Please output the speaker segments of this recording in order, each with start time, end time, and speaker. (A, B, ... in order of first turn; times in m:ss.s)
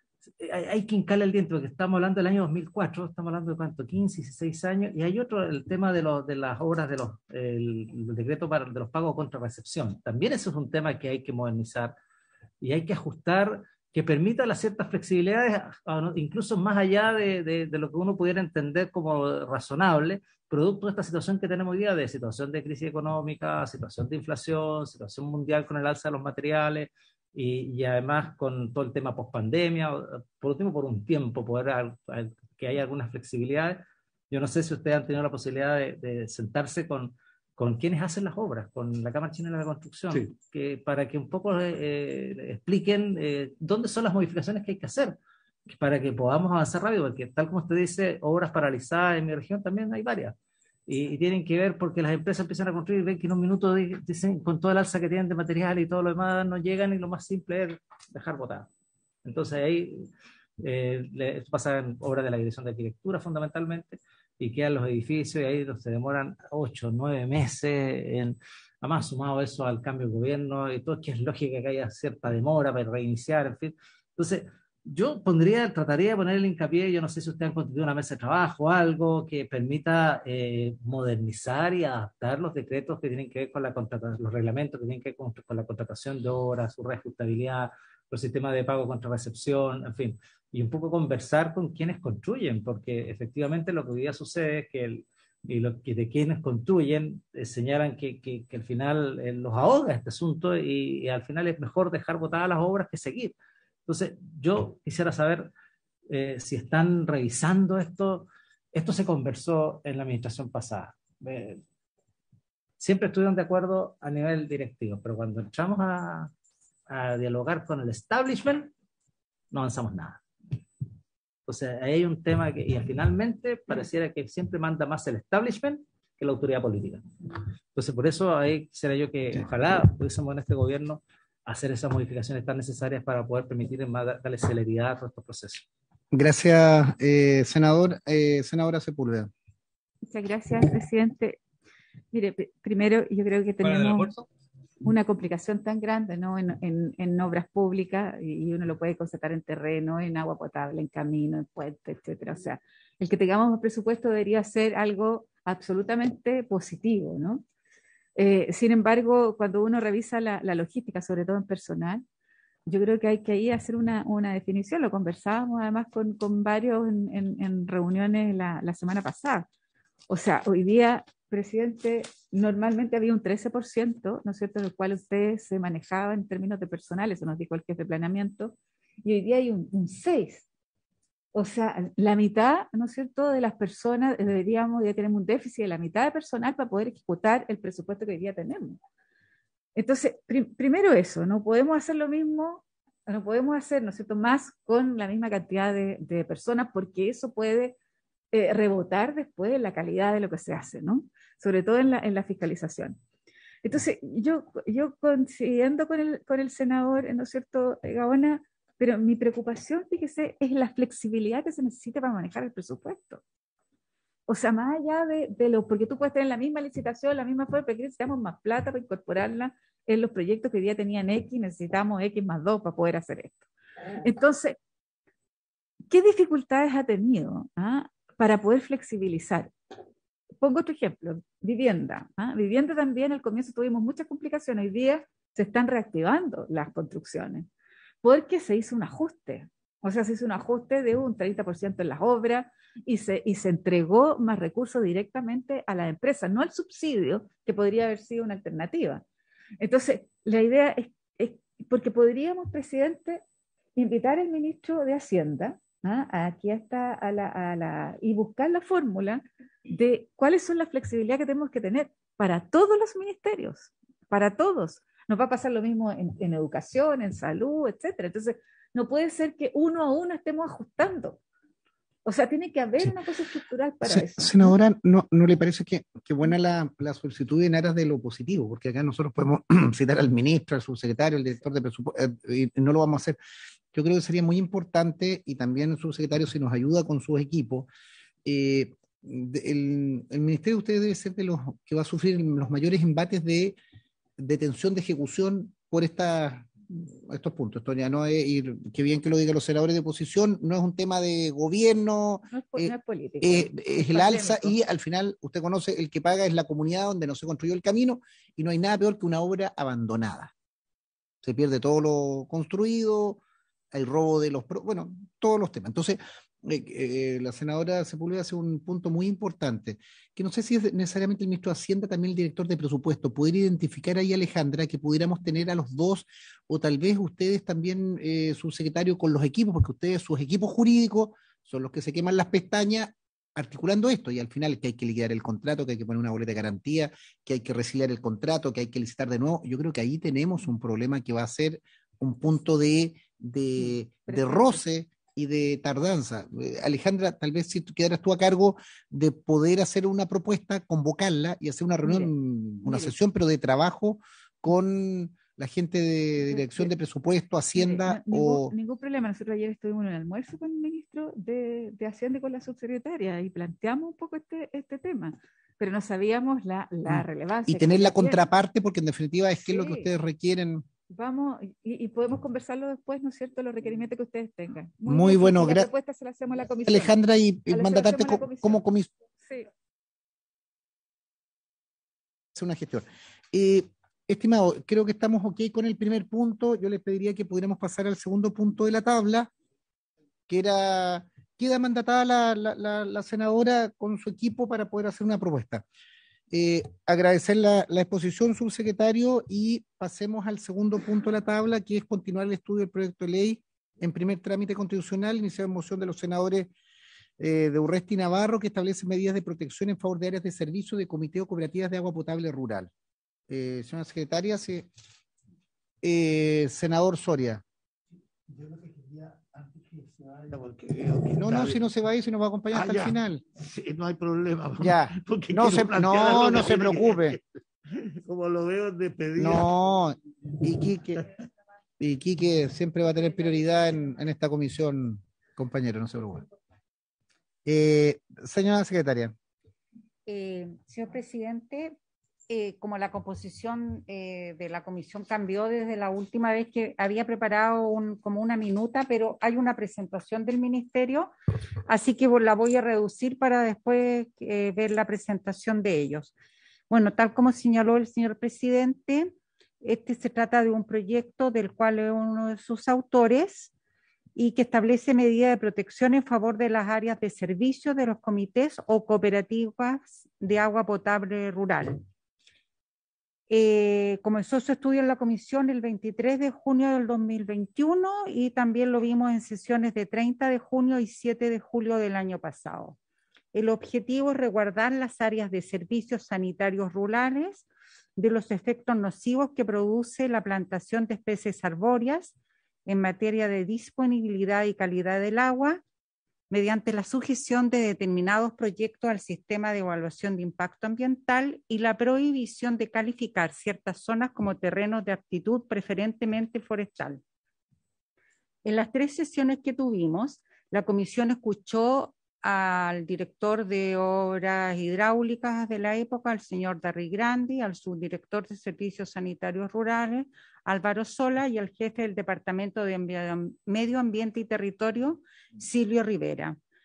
0:00.4-0:11.9 A
0:12.6-0:45.2 A
0:45.7-0:50.3 A
0:50.9-0:58.7 A
0:59.2-1:00.1 A
1:00.6-1:43.3 A
1:43.9-1:45.5 A
1:46.1-1:51.6 A
1:52.8-1:56.3 A
1:56.9-1:58.7 A
1:59.5-2:00.2 A
2:01.4-2:07.0 A
2:07.7-2:15.6 A
2:16.1-2:19.3 B
2:20.1-2:21.4 C
2:22.1-2:24.1 C
2:23.6-2:24.2 A
2:24.8-2:37.4 C
2:38.2-2:42.0 C
2:42.7-2:49.5 C
2:50.1-3:00.4 C
3:01.3-3:08.8 C
3:09.8-3:17.8 C
3:18.3-3:23.0 C
3:23.6-3:33.2 C
3:34.3-3:43.5 C
3:44.0-3:44.6 C
3:45.9-3:49.5 C
3:50.4-3:57.5 C
3:58.0-4:09.0 C
4:09.6-4:13.2 C
4:13.8-4:31.2 C
4:32.0-4:34.6 C
4:33.8-4:43.2 B
4:43.7-4:47.7 B
4:48.2-4:53.6 B
4:54.2-5:10.3 B
5:02.3-5:04.5 C
5:11.2-5:13.2 B
5:13.7-5:58.5 B
5:44.1-5:44.6 C
5:51.8-5:52.1 C
5:52.6-5:52.9 C
5:56.3-5:56.6 C
5:57.5-6:08.2 C
6:06.9-6:10.6 B
6:09.5-6:09.9 C
6:10.9-6:17.0 C
6:14.9-6:15.7 B
6:16.6-6:18.9 B
6:17.5-6:18.6 C
6:19.2-6:19.5 C
6:22.3-6:29.3 B
6:30.3-6:35.6 B
6:36.3-6:46.5 B
6:47.2-6:52.7 B
6:53.3-6:54.7 B
6:55.8-6:57.4 B
6:58.3-7:01.6 D
7:01.1-7:03.2 B
7:02.5-7:09.5 D
7:04.6-7:07.2 B
7:09.2-7:11.0 B
7:11.8-7:16.2 B
7:17.4-7:19.1 B
7:20.1-7:21.8 E
7:22.3-7:31.1 E
7:31.7-7:36.1 E
7:36.7-7:43.5 E
7:44.2-7:51.8 E
7:53.3-8:02.8 E
8:03.3-8:12.1 E
8:12.6-8:15.6 E
8:16.3-8:27.0 E
8:28.4-8:46.4 E